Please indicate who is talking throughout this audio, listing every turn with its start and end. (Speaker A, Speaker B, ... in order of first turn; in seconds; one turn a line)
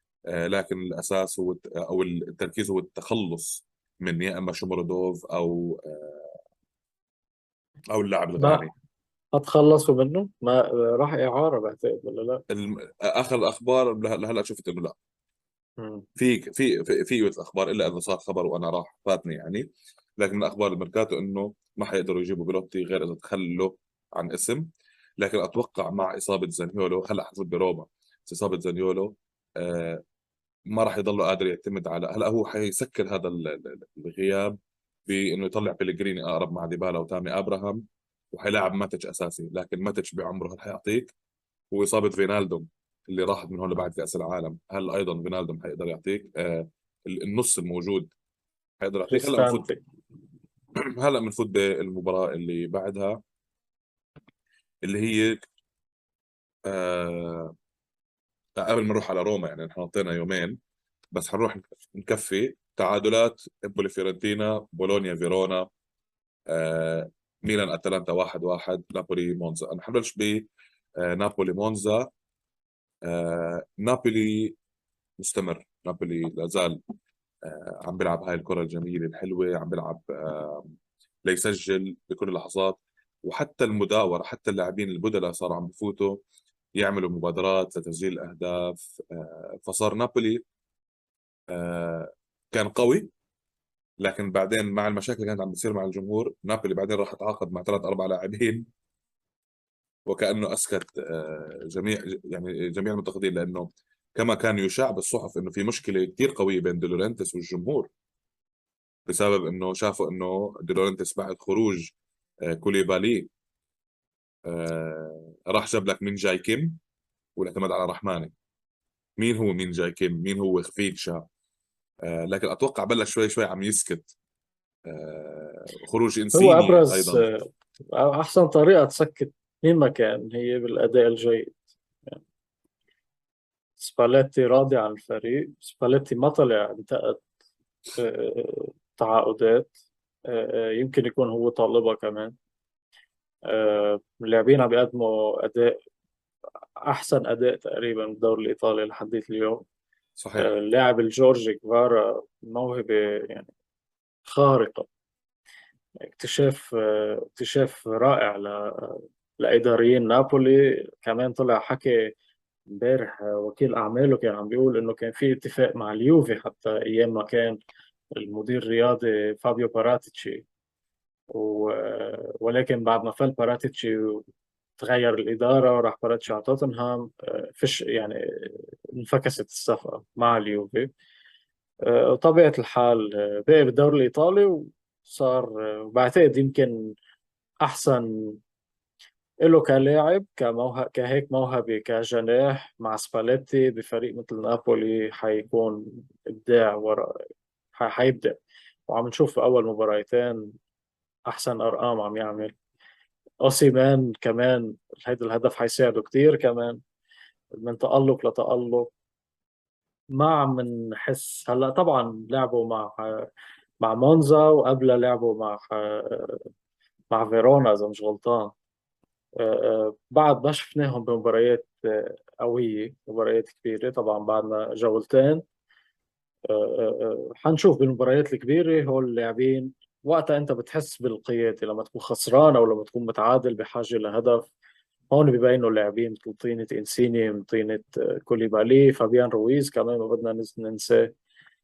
Speaker A: 0.3-6.4
Speaker A: 7.9-8.7
Speaker B: 8.4-8.7
Speaker B: 9.3-12.4
Speaker A: 12.5-15.0
Speaker B: 15.8-16.1
Speaker A: 16.2-19.7
Speaker A: 20.2-24.7
Speaker A: 25.2-30.0
Speaker A: 30.7-41.1
Speaker A: 41.7-48.1
Speaker A: 48.8-49.7
Speaker B: 49.1-49.8
Speaker A: 50.8-53.2
Speaker A: 54.9-55.4
Speaker A: 56.7-57.5
Speaker A: 58.6-60.6
Speaker A: 61.1-65.7
Speaker A: 66.5-70.5
Speaker A: 71.0-72.1
Speaker A: 73.1-74.6
Speaker A: 75.2-76.8
Speaker A: 77.5-80.7
Speaker A: 81.3-86.2
Speaker A: 86.8-90.4
Speaker A: 91.5-93.1
Speaker A: 94.0-98.7
Speaker A: 100.1-107.9
Speaker A: 109.1-111.9
Speaker A: 112.5-113.3
Speaker A: 114.5-116.8
Speaker A: 117.4-118.3
Speaker A: 119.2-121.2
Speaker A: 122.0-124.1
Speaker A: 124.9-127.2
Speaker B: 126.3-132.2
Speaker B: 133.8-137.2
Speaker B: 138.0-139.7
Speaker B: 140.3-142.3
Speaker B: 143.5-145.8
Speaker B: 146.8-149.7
Speaker A: 150.2-150.5
Speaker B: 150.4-153.5
Speaker B: 154.3-154.9
Speaker B: 156.0-162.1
Speaker B: 162.7-167.6
Speaker B: 168.1-170.4
Speaker B: 171.3-174.3
Speaker B: 174.8-180.9
Speaker B: 181.8-186.9
Speaker B: 187.6-188.4
Speaker B: 189.4-197.2
Speaker B: 197.7-198.4
Speaker B: 198.9-200.5
Speaker B: 201.3-202.5
Speaker B: 203.4-206.8
Speaker B: 207.6-208.9
Speaker B: 210.1-213.3
Speaker B: 213.8-216.5
Speaker B: 217.1-218.5
Speaker B: 219.4-225.4
Speaker B: 226.5-234.5
Speaker B: 235.1-241.1